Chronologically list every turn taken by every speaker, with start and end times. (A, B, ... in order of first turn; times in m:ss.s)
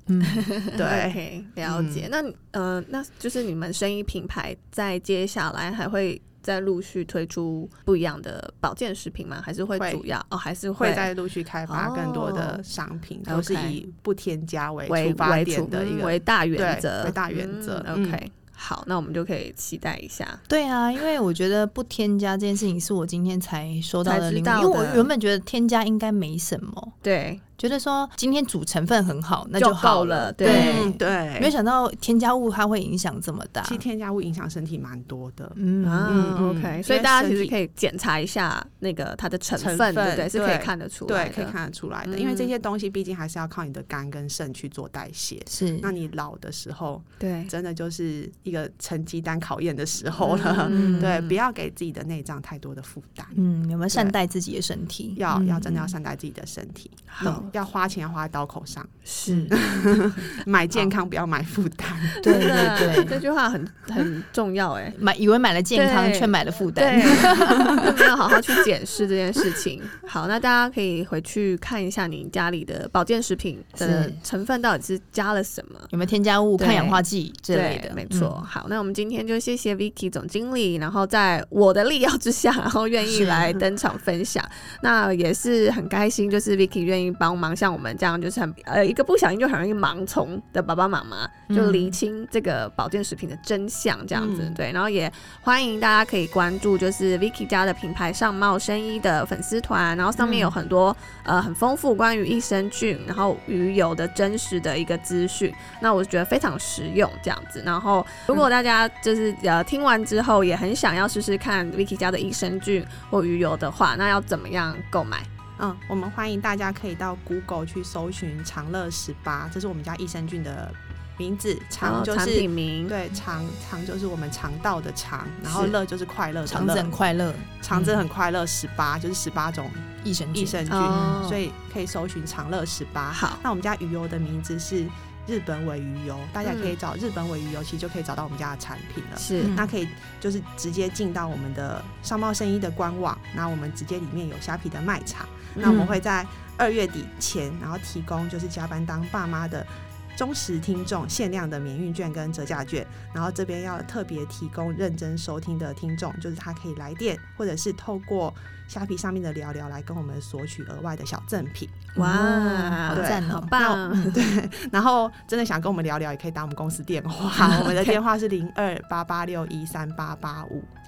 0:00.1-0:00.5 A
0:00.2-0:11.1 B
0:00.7-0:02.1 C
0:09.7-0:10.0 C
0:10.8-0:18.2 C
0:11.7-0:12.6 B
0:13.3-0:13.8 B
0:14.9-0:20.4 B
0:20.5-0:27.0 A
0:24.0-0:25.1 B
0:27.0-0:27.4 B
0:27.6-0:33.8 A
0:29.6-0:30.9 B
0:30.4-0:31.5 C
0:33.6-0:37.5 C
0:35.6-0:36.4 A
0:35.8-0:41.6 B
0:39.6-0:53.4 C
0:42.1-0:42.5 B
0:45.5-0:45.9 A
0:47.2-0:47.5 B
0:50.2-0:51.3 B
0:50.7-0:51.2 A
0:53.4-0:56.0 A
0:53.9-0:54.2 C
0:55.2-0:58.9 C
0:57.1-0:57.5 B
0:59.1-0:59.6 B
0:59.3-0:59.6 A
0:59.5-1:03.0 C
1:02.1-1:05.0 B
1:02.2-1:03.2 A
1:05.0-1:07.9 A
1:05.7-1:15.9 B
1:13.8-1:14.2 A
1:15.9-1:18.4 A
1:16.6-1:55.3 B
1:23.1-1:23.6 A
1:31.5-1:32.0 A
1:34.1-1:34.6 C
1:40.2-1:40.5 A
1:55.6-2:06.9 C
2:01.8-2:02.9 B
2:05.5-2:05.8 B
2:06.4-2:08.1 A
2:07.6-2:41.9 C
2:10.0-2:11.2 A
2:10.7-2:11.4 B
2:13.1-2:13.4 B
2:16.4-2:16.7 B
2:19.2-2:19.6 B
2:19.4-2:19.7 A
2:25.6-2:25.8 B
2:25.6-2:26.0 A
2:42.0-2:44.2 B
2:42.0-2:44.2 A
2:42.9-2:50.7 C
2:47.4-2:47.8 A
2:47.4-2:47.7 B